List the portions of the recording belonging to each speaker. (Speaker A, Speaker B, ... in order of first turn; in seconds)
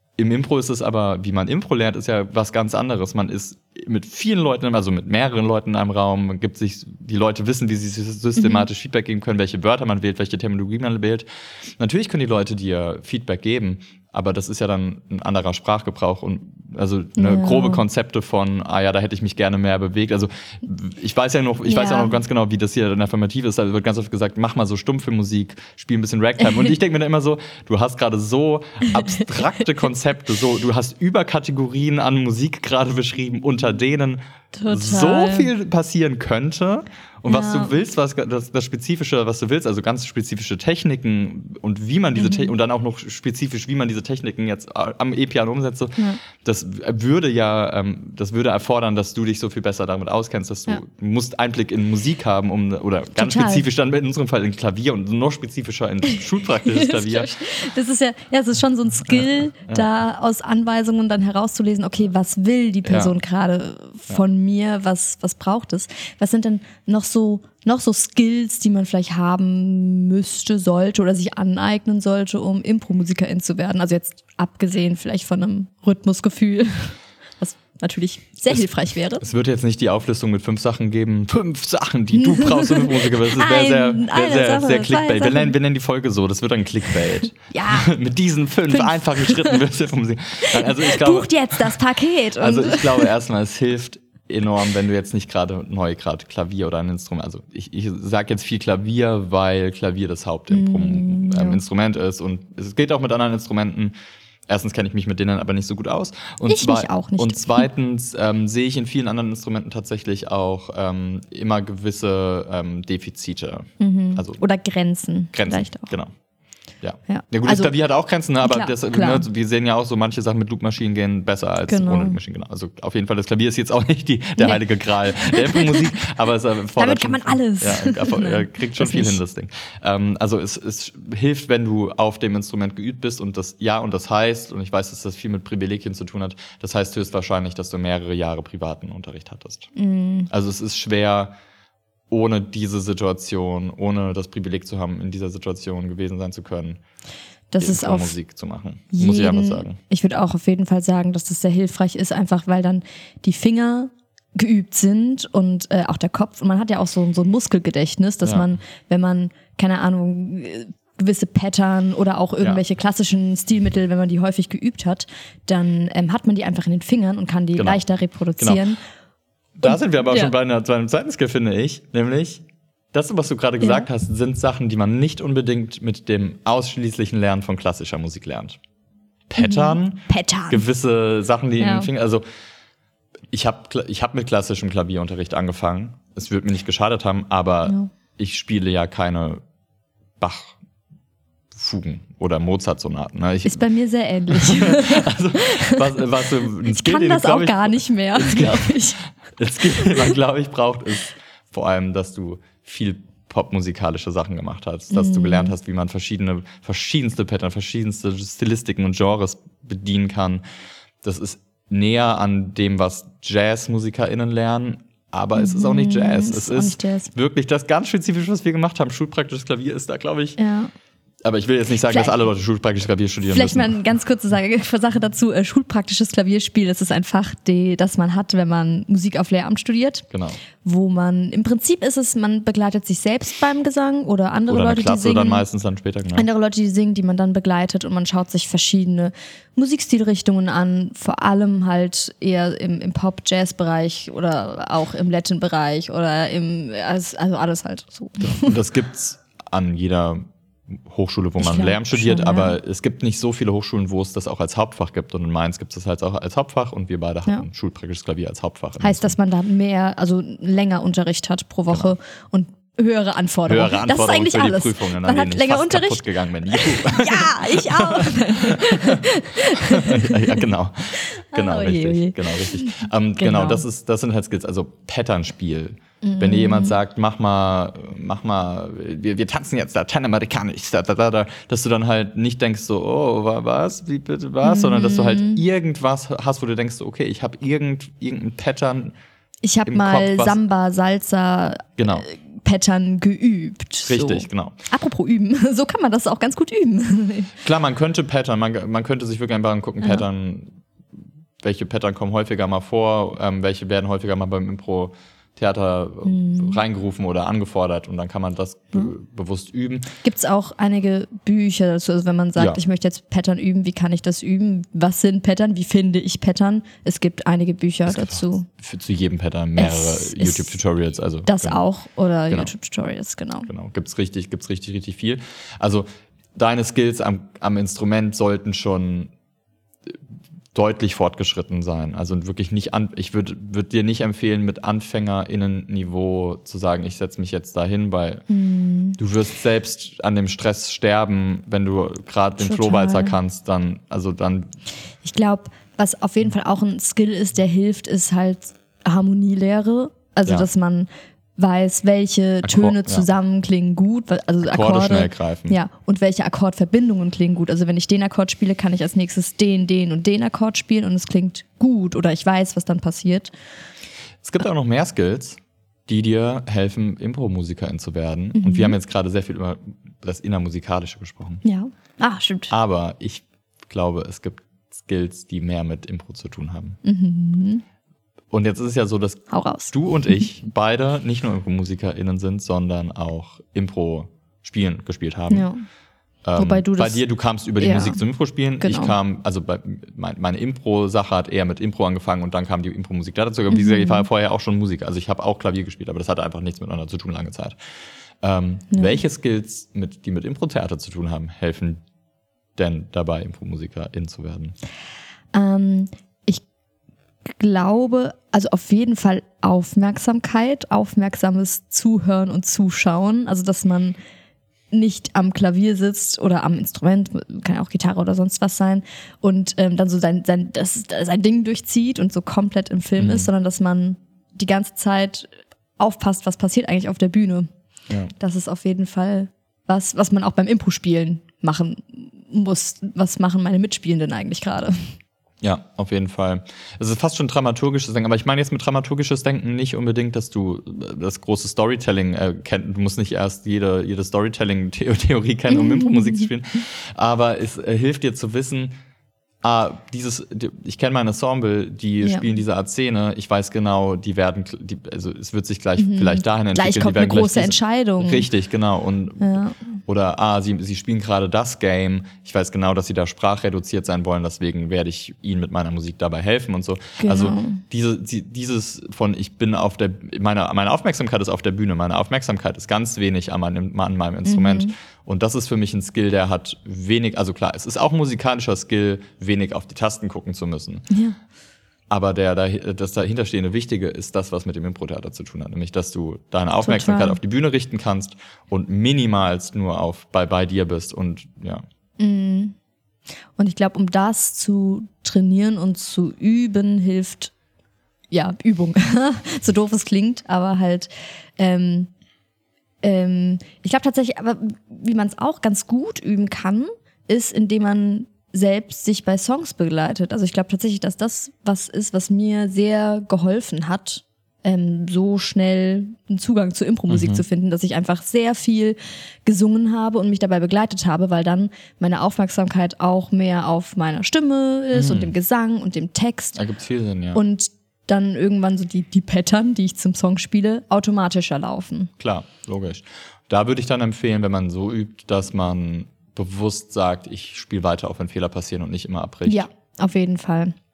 Speaker A: 0.2-57.4, 59.1-59.9, 62.9-63.1, 79.2-91.8, 92.4-103.9, 104.5-114.4, 115.3-116.1, 116.8-139.7, 140.3-141.3, 142.1-146.8, 147.6-149.8, 168.4-168.6, 169.6-178.6, 179.3-182.2, 183.3-189.4, 190.2-190.6, 191.5-193.7, 194.3-210.4, 211.0-220.4, 221.2-223.8, 230.1-230.4, 234.5-236.3, 248.2-259.2, 263.5-269.1, 269.6-288.9, 289.7-290.4, 291.8-292.1, 293.9-294.6, 297.4-300.6, 301.4-309.9, 317.9-321.6, 323.5-329.1, 330.5-338.2, 339.0-344.5, 352.4-353.1, 354.4-355.6, 364.2-371.4, 372.5-376.8, 378.3-385.5, 386.2-397.6, 398.2-401.8, 402.6-404.6, 423.0-423.3, 435.4-448.8, 449.4-480.9, 481.9-491.6, 516.9-517.2, 524.7-525.1, 526.4-527.2, 532.0-539.5
Speaker B: 8.4-8.7, 17.2-17.8, 21.7-22.2, 28.9-29.2, 34.5-35.5, 37.3-37.7, 42.2-42.5, 53.2-53.6, 56.7-79.2, 82.2-85.5, 87.5-87.9, 88.7-89.6, 90.4-93.1, 100.5-101.6, 106.5-107.7, 113.8-116.0, 117.1-117.7, 118.4-119.2, 121.7-122.2, 125.1-126.0, 126.8-129.2, 139.8-140.3, 147.5-148.1, 148.9-168.8, 169.7-170.3, 173.6-173.9, 179.4-180.6, 181.6-181.9, 187.7-187.9, 193.4-195.9, 196.7-199.0, 199.8-200.1, 204.9-205.5, 215.3-217.1, 220.4-220.7, 221.9-222.1, 223.2-230.1, 230.6-235.4, 236.2-248.6, 251.4-252.6, 258.8-270.4, 271.0-273.6, 276.0-276.8, 284.4-285.4, 289.4-297.4, 306.0-306.6, 310.0-318.5, 319.6-320.6, 321.2-323.5, 338.3-339.0, 342.4-343.1, 345.0-363.3, 368.4-368.8, 371.4-372.5, 376.8-377.6, 379.3-380.2, 385.3-385.6, 386.4-387.0, 387.6-388.0, 388.6-388.9, 393.5-394.1, 398.7-399.0, 405.3-406.4, 407.3-414.0, 414.7-427.5, 428.2-435.0, 445.5-446.3, 452.0-452.3, 455.8-458.3, 459.2-459.6, 467.0-467.6, 474.2-474.7, 480.9-481.2, 486.6-487.2, 492.0-492.6, 493.4-497.3, 498.1-501.9, 502.8-526.4, 527.1-531.9, 539.3-540.5